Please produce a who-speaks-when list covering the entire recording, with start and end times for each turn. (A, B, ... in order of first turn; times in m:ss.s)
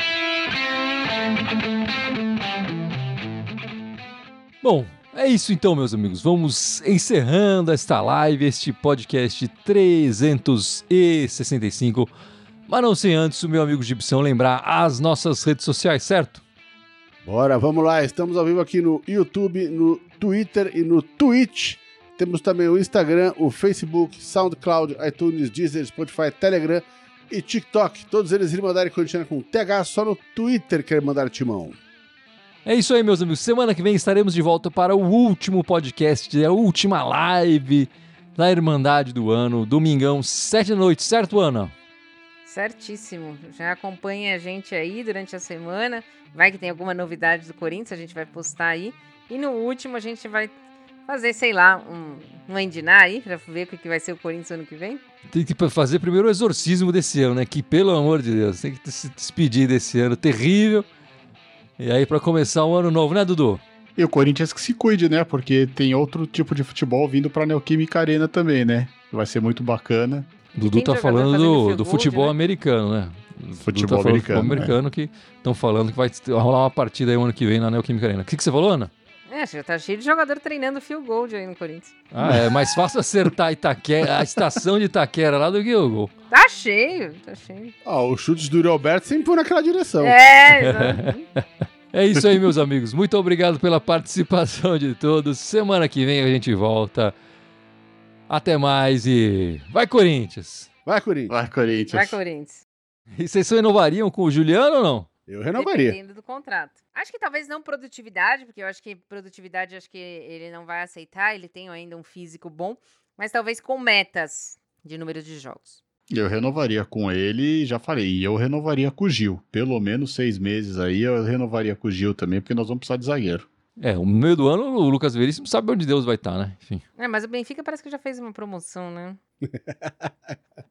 0:04.6-0:12.1 A
0:12.7-0:16.4 A
0:17.2-0:31.8 B
0:32.6-0:41.7 A
0:42.4-0:50.5 C
0:51.0-0:55.0 C
0:55.3-1:00.9 A
1:01.8-1:03.6 A
1:04.0-1:10.3 D
1:10.6-1:18.9 A
1:10.6-1:12.3 C
1:13.6-1:14.7 D
1:19.3-1:22.0 C
1:22.1-1:26.1 A
1:26.3-1:27.7 C
1:27.8-1:30.2 B
1:30.0-1:31.2 C
1:30.5-1:31.1 A
1:31.9-1:37.1 A
1:38.3-1:40.7 A
1:40.8-1:41.3 B
1:41.3-1:42.2 D
1:41.9-1:42.6 C
1:43.2-1:45.1 A
1:45.3-1:46.0 B
1:45.5-1:55.8 C
1:56.1-2:03.5 D
2:03.8-2:06.8 A
2:07.0-2:09.2 C
2:09.7-2:10.1 B